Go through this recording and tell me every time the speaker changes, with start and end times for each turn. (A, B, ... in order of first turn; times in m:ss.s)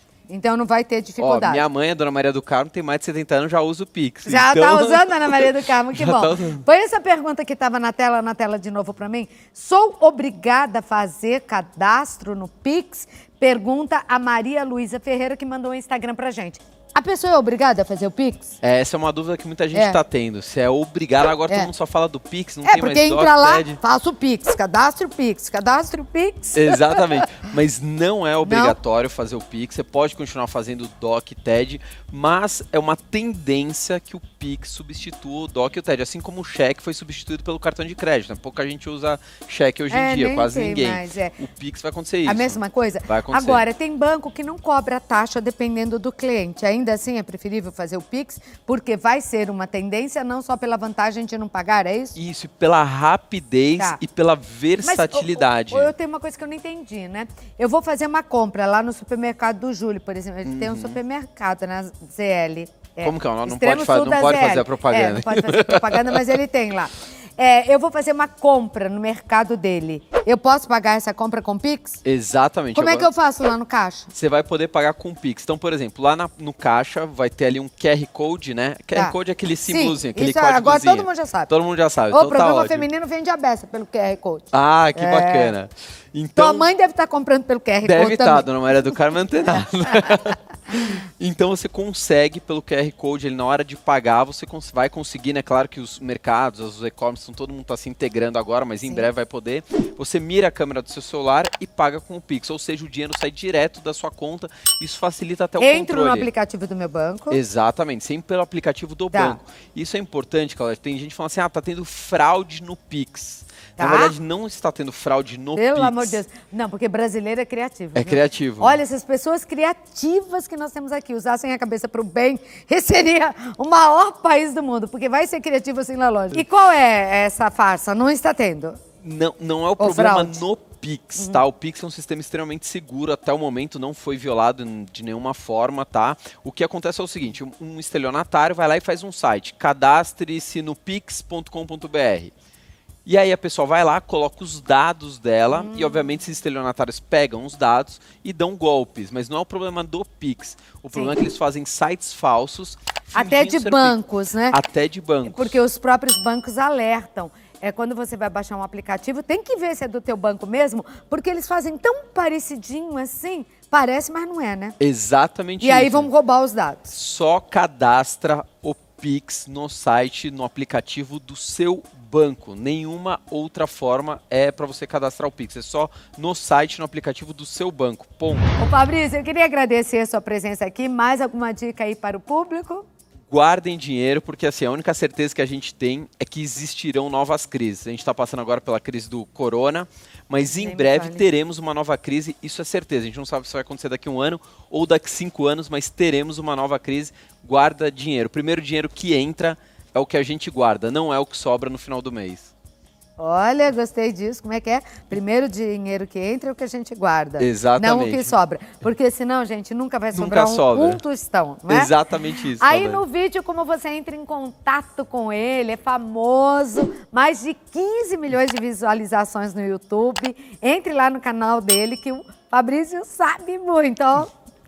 0:00.3-0:01.7 A
0:01.2-0:06.6 B
0:04.2-0:18.6 A
0:18.6-0:23.8 B
0:19.7-0:20.0 A
0:22.6-0:27.0 A
0:26.5-0:43.6 B
0:28.4-0:28.8 A
0:39.9-0:41.4 A
0:42.2-0:52.2 A
0:52.2-0:55.9 B
0:54.8-1:12.0 A
1:00.4-1:01.0 B
1:03.0-1:06.4 B
1:12.0-1:13.1 B
1:12.7-1:14.1 A
1:14.1-1:22.9 B
1:18.9-1:21.5 A
1:22.1-1:25.6 A
1:24.5-1:26.7 B
1:26.4-1:28.5 A
1:27.8-1:46.3 B
1:45.6-1:47.4 A
1:47.3-1:56.2 B
1:49.1-1:49.4 A
1:53.8-1:54.2 A
1:55.6-2:08.8 A
1:57.9-1:58.8 B
2:09.0-2:22.3 B
2:09.8-2:10.4 A
2:11.2-2:11.4 A
2:23.0-2:35.6 B
2:25.5-2:26.2 A
2:30.9-2:31.2 A
2:33.1-2:34.6 A
2:35.2-2:44.8 A
2:44.8-2:46.1 B
2:45.6-2:46.9 A
2:46.9-2:58.6 B
2:58.6-3:02.8 A
3:03.3-3:22.5 B
3:10.5-3:11.2 A
3:23.2-3:44.3 A
3:27.4-3:28.3 B
3:30.1-3:31.0 B
3:31.7-3:33.0 B